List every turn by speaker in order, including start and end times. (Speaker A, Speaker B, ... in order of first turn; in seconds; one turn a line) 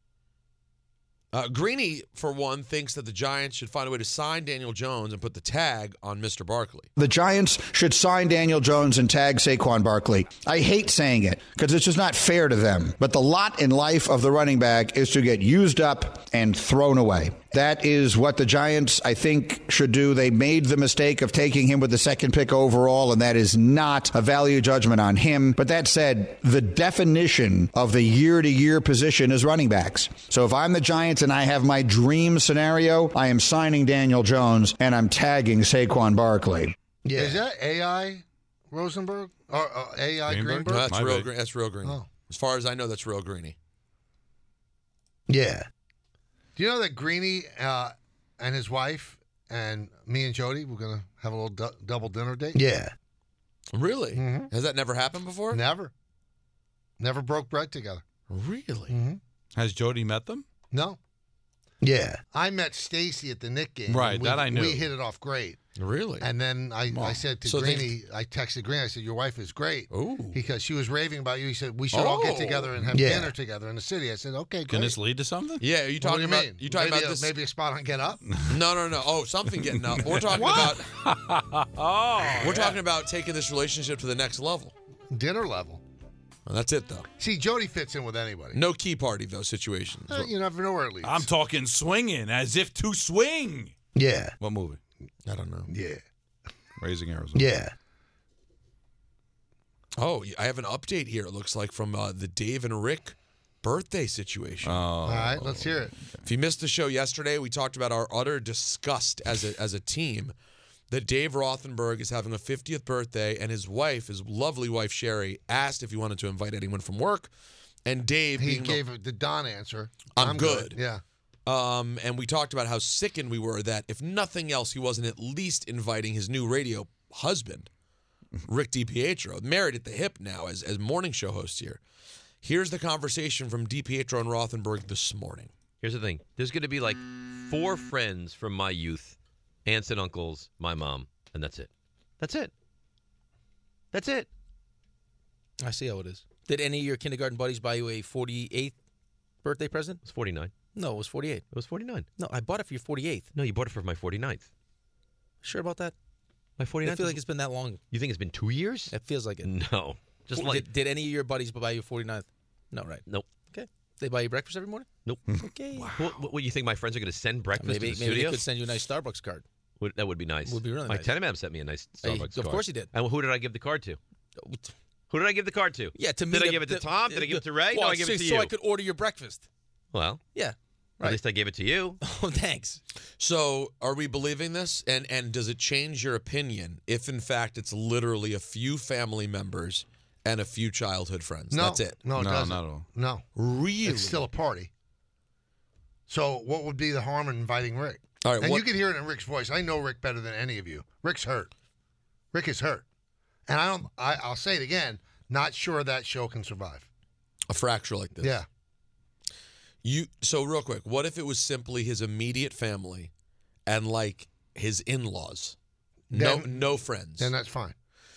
Speaker A: 1.3-6.9
Speaker B: 7.0-36.7
Speaker C: 37.0-40.9
Speaker D: 40.3-41.3
Speaker A: 40.6-43.5
Speaker C: 45.3-45.7
Speaker C: 46.5-52.9
Speaker A: 53.7-55.6
Speaker C: 54.1-54.5
Speaker C: 55.5-55.9
Speaker C: 57.0-58.0
Speaker A: 58.3-59.0
Speaker C: 58.9-59.2
Speaker D: 59.5-60.4
Speaker C: 60.7-61.0
Speaker C: 61.8-65.6
Speaker D: 63.9-64.9
Speaker A: 65.8-66.2
Speaker C: 66.2-75.0
Speaker D: 66.9-67.2
Speaker A: 67.4-67.9
Speaker A: 69.9-70.4
Speaker A: 71.9-73.3
Speaker D: 74.7-75.6
Speaker A: 75.6-77.3
Speaker C: 76.0-78.2
Speaker A: 78.5-80.9
Speaker D: 79.9-82.8
Speaker C: 80.4-80.7
Speaker A: 82.3-84.7
Speaker C: 85.1-85.8
Speaker A: 86.5-87.1
Speaker C: 87.2-88.6
Speaker A: 88.5-90.3
Speaker C: 90.1-91.3
Speaker D: 91.0-93.7
Speaker C: 93.9-94.3
Speaker D: 94.4-94.8
Speaker A: 95.2-95.7
Speaker C: 95.7-96.0
Speaker D: 96.8-97.5
Speaker C: 97.3-97.7
Speaker A: 100.0-104.8
Speaker D: 104.6-106.2
Speaker C: 105.0-105.9
Speaker A: 106.2-110.3
Speaker A: 110.9-117.3
Speaker A: 117.8-118.8
Speaker C: 118.4-121.0
Speaker A: 120.1-120.8
Speaker A: 121.5-127.7
Speaker A: 128.4-131.8
Speaker A: 132.4-135.5
Speaker E: 135.8-142.5
Speaker E: 143.9-144.3
Speaker F: 145.6-148.8
Speaker F: 149.4-150.0
Speaker E: 150.0-150.7
Speaker F: 150.7-151.4
Speaker E: 151.5-152.1
Speaker F: 152.2-153.3
Speaker E: 153.3-154.5
Speaker F: 155.4-155.9
Speaker E: 156.6-157.2
Speaker F: 156.8-157.8
Speaker E: 157.9-160.7
Speaker F: 158.9-159.5
Speaker F: 160.3-164.9
Speaker E: 163.0-163.4
Speaker E: 165.0-168.4
Speaker F: 165.4-165.9
Speaker F: 167.6-169.4
Speaker E: 169.8-174.0
Speaker F: 170.4-171.2
Speaker F: 172.0-172.9
Speaker F: 174.4-174.7
Speaker E: 175.1-178.5
Speaker F: 175.9-179.4
Speaker E: 179.9-180.2
Speaker F: 180.3-181.2
Speaker E: 181.0-182.0
Speaker F: 182.0-182.8
Speaker A: 183.2-192.0
Speaker C: 191.5-193.2
Speaker D: 192.2-192.9
Speaker A: 193.3-194.2
Speaker C: 193.8-194.7
Speaker C: 196.1-201.5
Speaker A: 198.2-198.7
Speaker C: 202.3-202.8
Speaker C: 203.5-206.9
Speaker A: 207.5-208.4
Speaker C: 208.2-208.4
Speaker A: 209.8-213.1
Speaker A: 213.7-215.6
Speaker A: 216.1-217.3
Speaker C: 216.1-217.7